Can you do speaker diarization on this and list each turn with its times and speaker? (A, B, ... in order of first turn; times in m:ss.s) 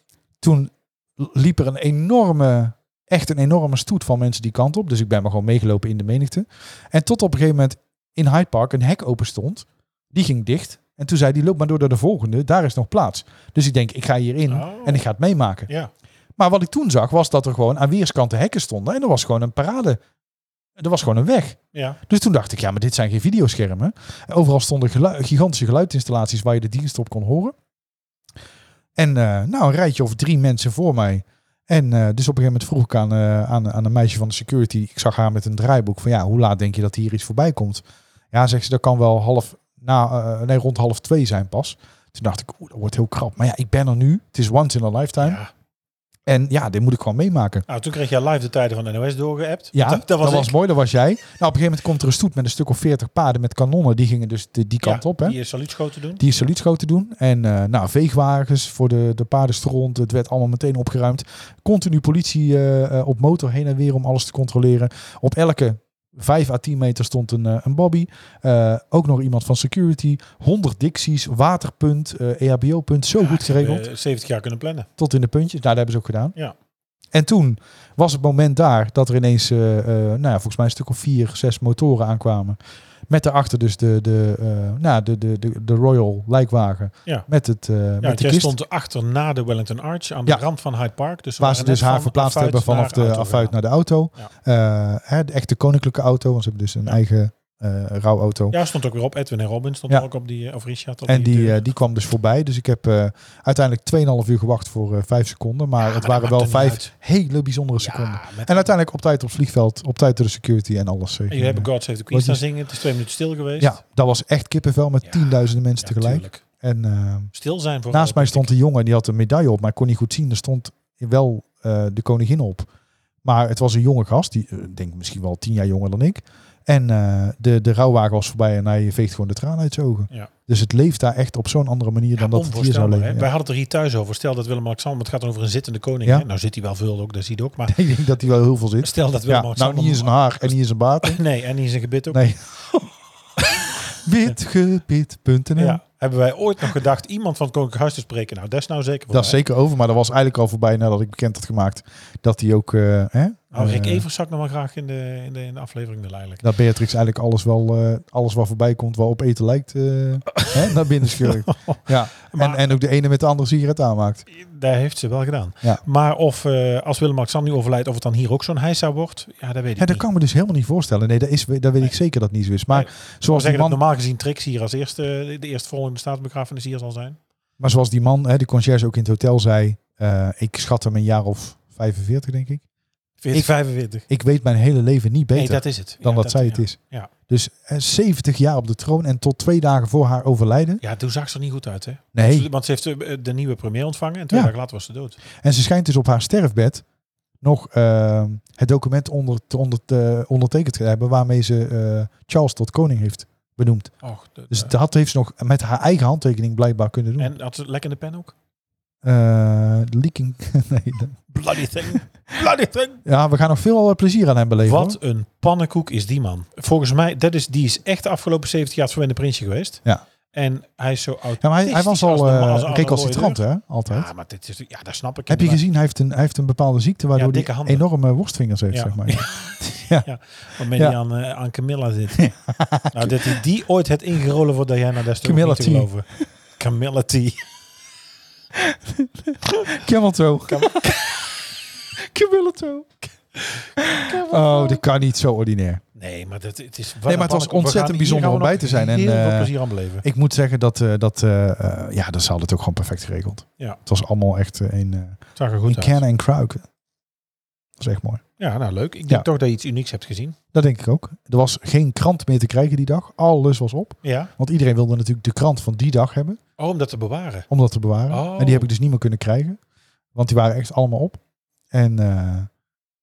0:00.4-0:15.7 A
0:14.5-0:15.0 B
0:16.4-0:20.0 A
0:20.8-0:27.5 A
0:21.7-0:22.0 B
0:29.0-0:45.4 A
0:45.2-0:45.5 B
0:46.2-0:47.6 A
0:47.7-0:50.5 B
0:49.7-0:55.4 A
0:54.8-0:56.2 B
0:56.2-1:13.8 A
1:13.2-1:14.9 B
1:15.0-1:16.4 A
1:17.1-1:22.6 A
1:23.1-1:28.5 A
1:28.0-1:33.6 B
1:31.4-1:38.6 A
1:38.5-1:41.6 B
1:41.1-1:52.4 A
1:45.8-1:46.9 B
1:47.8-1:48.7 B
1:51.3-1:53.8 B
1:53.6-1:57.3 A
1:55.0-1:56.4 B
1:57.3-1:58.5 B
1:57.9-2:02.7 A
2:03.2-2:13.3 A
2:12.2-2:17.8 B
2:17.7-2:21.2 A
2:18.8-2:20.5 B
2:21.0-2:22.2 B
2:22.1-2:22.9 A
2:23.9-2:25.8 A
2:25.6-2:29.4 B
2:29.1-2:34.0 A
2:33.5-2:36.4 B
2:36.4-2:44.2 A
2:40.3-2:42.6 B
2:44.3-2:50.0 B
2:49.8-2:53.8 A
2:52.7-2:57.2 B
2:57.6-3:02.6 A
3:03.2-3:04.0 B
3:04.0-3:10.8 A
3:05.3-3:07.1 B
3:10.8-3:15.2 B
3:12.1-3:12.5 A
3:15.4-3:16.8 A
3:17.4-3:27.3 A
3:24.0-3:24.7 B
3:27.2-3:28.3 B
3:29.0-3:31.2 A
3:31.3-3:33.0 B
3:33.0-3:35.0 A
3:34.6-3:45.6 B
3:41.4-3:44.1 A
3:45.3-3:50.1 A
3:47.1-3:47.8 B
3:48.7-3:49.5 B
3:50.0-3:52.3 B
3:52.2-3:53.4 A
3:52.9-3:56.0 B
3:55.2-3:55.9 A
3:56.6-3:57.4 B
3:58.6-4:01.0 A
4:00.5-4:01.2 B
4:02.0-4:03.1 A
4:03.5-4:04.8 B
4:03.8-4:05.8 A
4:06.0-4:10.0 B
4:07.1-4:16.6 A
4:15.4-4:16.0 B
4:17.8-4:18.2 A
4:18.4-4:20.4 B
4:20.5-4:26.4 A
4:24.0-4:24.3 B
4:26.6-4:27.5 B
4:27.5-4:29.6 A
4:28.1-4:28.7 B
4:30.1-4:31.2 A
4:31.7-4:32.5 A